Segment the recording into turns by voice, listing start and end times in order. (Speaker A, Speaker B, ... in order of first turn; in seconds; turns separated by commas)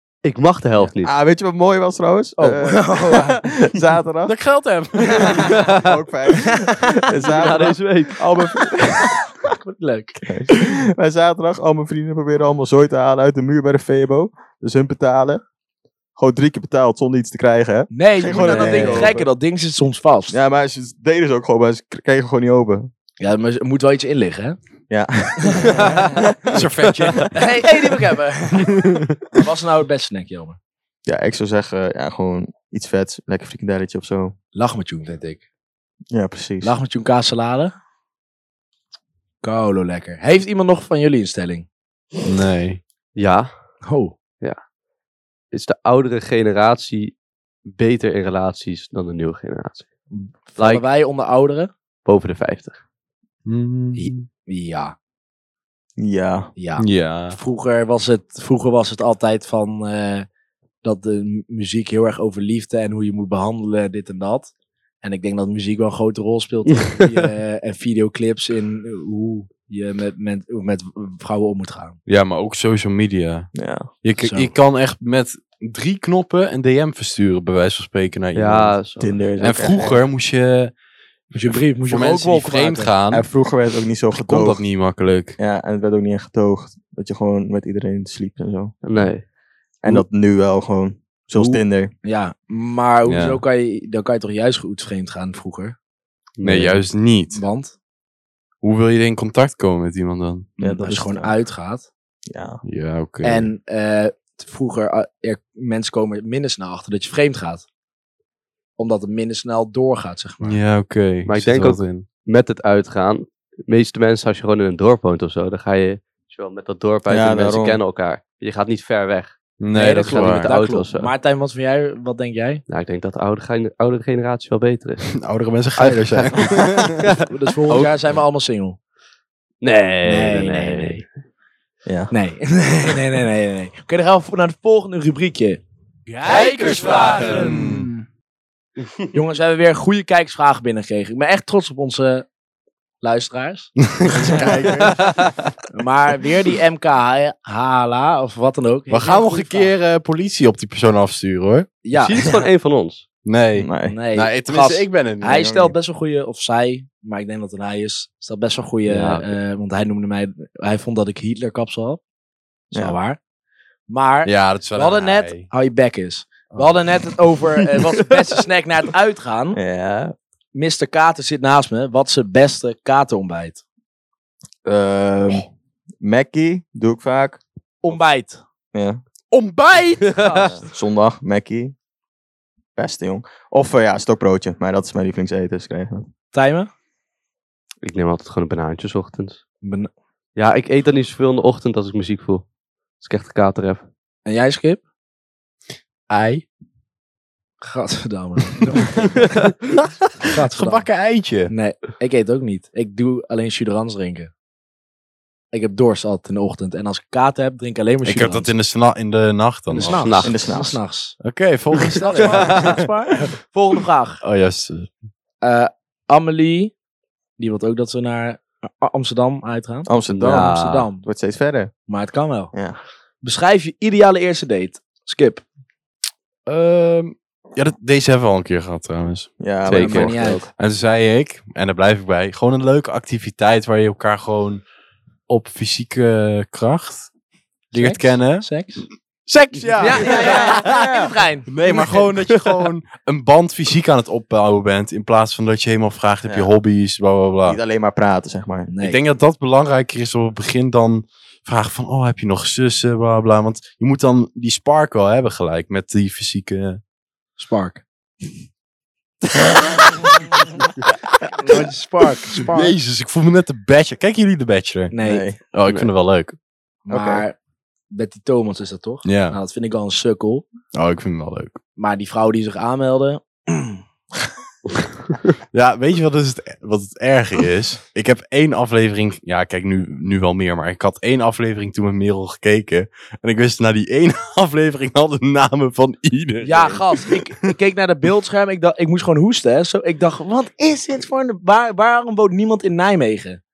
Speaker A: 0.2-1.1, Speaker B: 1.0-4.4, Speaker C: 2.4-3.4, Speaker D: 4.3-5.6, Speaker C: 5.1-5.5, Speaker B: 5.2-9.2, Speaker A: 5.6-5.9, Speaker C: 6.4-7.3, Speaker A: 7.2-8.2, Speaker C: 8.4-10.2, Speaker B: 10.2-15.4, Speaker B: 16.2-19.3, Speaker C: 17.9-20.4, Speaker D: 18.4-18.9, Speaker B: 20.3-22.9, Speaker C: 23.2-24.6, Speaker B: 24.9-26.7, Speaker C: 25.4-26.2, Speaker D: 26.5-27.4, Speaker A: 26.9-27.3, Speaker C: 27.3-30.6, Speaker D: 28.8-29.0, Speaker B: 31.1-34.3, Speaker C: 34.5-35.4, Speaker B: 36.1-36.8, Speaker C: 36.6-37.7, Speaker C: 39.4-41.7, Speaker D: 42.2-42.8, Speaker A: 43.2-43.5, Speaker C: 43.9-44.1, Speaker A: 45.5-47.1, Speaker A: 47.7-49.9, Speaker C: 50.1-51.7, Speaker A: 50.6-50.8, Speaker A: 52.0-52.8, Speaker D: 53.5-54.3, Speaker C: 54.0-55.0, Speaker B: 56.0-56.5, Speaker C: 56.6-60.3, Speaker D: 56.8-57.4, Speaker C: 60.8-72.0, Speaker D: 72.1-73.5, Speaker B: 73.5-73.9, Speaker D: 74.0-78.8, Speaker C: 74.2-74.5, Speaker A: 78.3-79.2, Speaker B: 79.0-80.0, Speaker D: 79.4-80.7, Speaker C: 81.3-82.9, Speaker D: 81.9-83.3, Speaker B: 83.1-84.6, Speaker D: 84.1-85.4, Speaker B: 85.4-89.0, Speaker A: 88.8-89.2, Speaker B: 89.8-91.9, Speaker C: 91.3-95.8, Speaker D: 93.1-93.4, Speaker A: 96.4-96.7, Speaker D: 96.4-97.4, Speaker C: 97.3-97.8, Speaker D: 98.6-100.5, Speaker B: 100.6-101.3, Speaker C: 100.6-101.9, Speaker B: 102.3-102.6, Speaker D: 102.6-103.5, Speaker C: 103.2-107.7, Speaker C: 108.8-110.6, Speaker D: 110.4-112.0, Speaker A: 111.3-119.4, Speaker B: 117.1-117.8, Speaker D: 119.6-120.5, Speaker C: 119.8-122.6, Speaker A: 120.0-121.1, Speaker A: 122.7-125.1, Speaker D: 125.2-127.1, Speaker A: 125.8-127.9, Speaker C: 127.2-128.8, Speaker A: 129.6-131.1, Speaker C: 130.0-131.0, Speaker B: 131.9-132.1, Speaker C: 132.1-138.0, Speaker D: 136.2-137.9, Speaker C: 139.1-142.3, Speaker C: 143.0-144.7, Speaker D: 143.9-145.3, Speaker B: 144.3-145.0, Speaker A: 144.9-145.3, Speaker C: 145.7-149.7, Speaker D: 148.9-151.7, Speaker C: 151.8-152.4, Speaker A: 151.9-153.0, Speaker D: 153.2-155.6, Speaker B: 153.6-154.0, Speaker C: 153.9-162.0, Speaker B: 155.4-155.7, Speaker A: 158.9-159.3, Speaker C: 162.7-163.2, Speaker C: 163.9-169.6, Speaker D: 164.2-165.5, Speaker B: 169.6-170.1, Speaker C: 170.5-173.6, Speaker B: 174.7-175.5, Speaker B: 176.0-177.4, Speaker C: 177.8-178.4, Speaker B: 178.7-179.0, Speaker D: 179.3-180.4, Speaker A: 180.1-180.4, Speaker C: 180.2-180.6, Speaker B: 180.3-181.8, Speaker B: 182.8-186.1, Speaker C: 186.3-186.7, Speaker A: 187.8-189.4, Speaker C: 189.6-189.9, Speaker A: 190.4-192.4, Speaker A: 193.0-193.8, Speaker C: 194.3-194.8, Speaker D: 196.1-196.4, Speaker C: 197.6-199.5, Speaker D: 199.7-201.5, Speaker C: 200.2-200.9, Speaker C: 201.5-204.3, Speaker C: 205.5-208.5, Speaker D: 208.1-210.2, Speaker C: 209.7-211.2, Speaker A: 209.8-210.3, Speaker B: 210.2-210.8, Speaker D: 211.2-212.8, Speaker C: 211.9-214.2, Speaker A: 212.3-212.7, Speaker D: 214.2-214.9, Speaker C: 215.4-216.7, Speaker C: 217.4-221.1, Speaker B: 219.9-221.7, Speaker A: 220.1-220.9, Speaker C: 221.9-222.5, Speaker B: 222.5-222.8, Speaker C: 223.2-225.4, Speaker D: 226.5-229.3, Speaker B: 229.4-230.5, Speaker A: 229.7-230.2, Speaker C: 229.7-230.5, Speaker D: 230.6-234.6, Speaker D: 235.3-237.1, Speaker C: 237.7-238.9, Speaker D: 237.7-238.5, Speaker D: 239.3-240.7, Speaker C: 239.8-242.0, Speaker B: 240.0-241.1, Speaker D: 241.5-247.6, Speaker A: 242.2-242.5, Speaker B: 246.3-246.5, Speaker B: 247.4-248.7, Speaker C: 248.7-249.0, Speaker D: 248.8-256.8, Speaker C: 257.4-257.8, Speaker D: 261.2-261.6, Speaker C: 261.4-262.8, Speaker D: 262.4-264.9, Speaker C: 264.9-265.3, Speaker B: 265.0-265.4, Speaker D: 265.5-266.4, Speaker C: 266.9-267.4, Speaker B: 266.9-267.2, Speaker C: 267.9-270.5, Speaker D: 269.0-269.4, Speaker D: 270.7-271.6, Speaker C: 271.8-273.8, Speaker D: 275.5-287.5, Speaker C: 286.4-293.4